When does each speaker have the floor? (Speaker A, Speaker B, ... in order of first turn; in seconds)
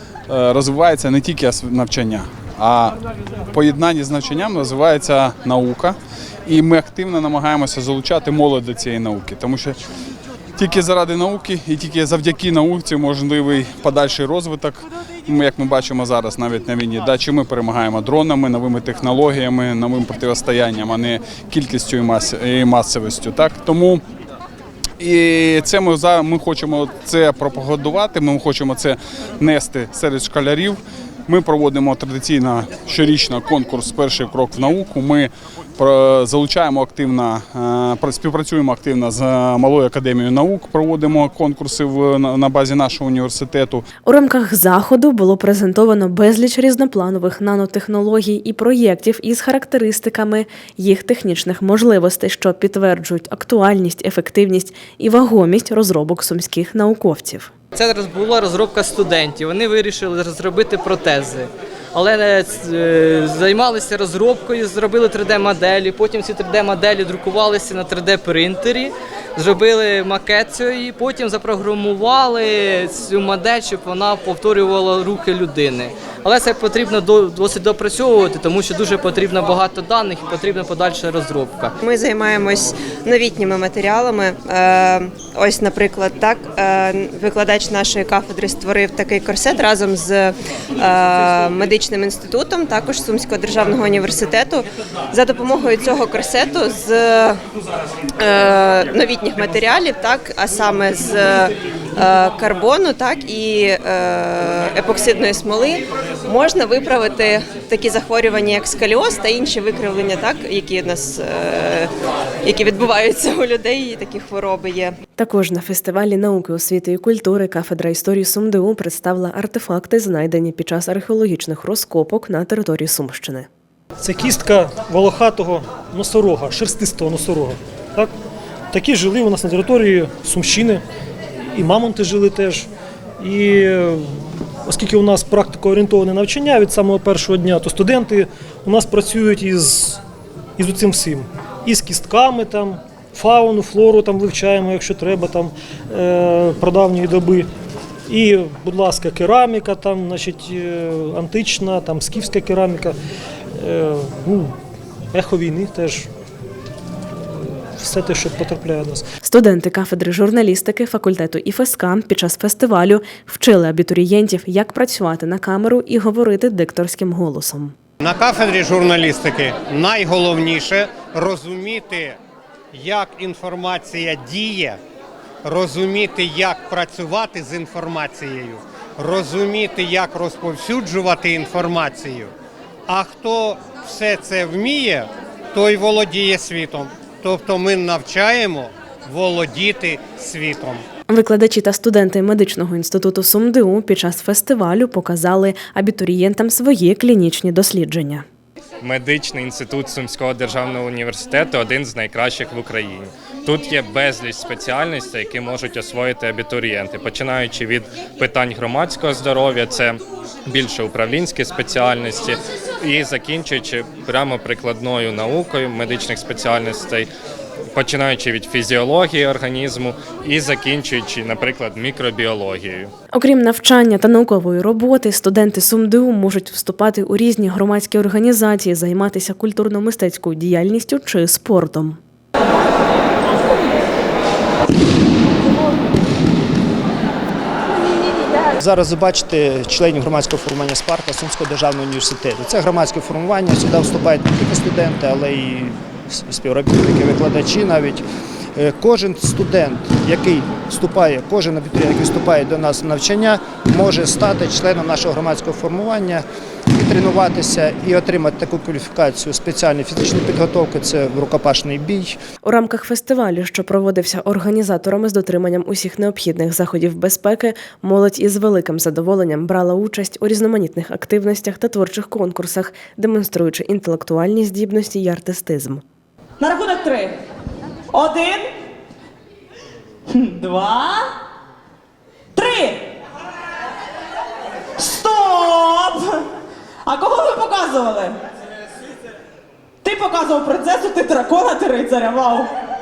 Speaker A: 0.3-3.0, 3.5-9.8, 10.6-24.0, 25.0-43.8
Speaker B: 44.0-57.5, 115.2-123.5, 159.2-167.8, 191.1-198.2, 223.1-232.0, 262.4-275.8
Speaker C: 57.7-81.7
Speaker D: 81.8-97.4, 98.2-111.9, 112.4-115.0
Speaker E: 124.0-128.1, 128.7-130.8, 131.5-132.7, 133.2-140.0, 140.6-147.5, 148.1-153.0, 153.6-154.6, 155.1-156.1, 157.2-159.1
Speaker F: 168.0-172.2, 172.7-174.8, 175.4-182.3, 182.9-190.8
Speaker G: 198.8-217.1, 217.7-222.9
Speaker H: 238.6-248.0, 248.6-262.2
Speaker I: 276.4-277.1, 277.9-278.4, 280.2-281.0, 282.4-282.8, 284.8-286.1, 286.9-288.1, 289.8-292.5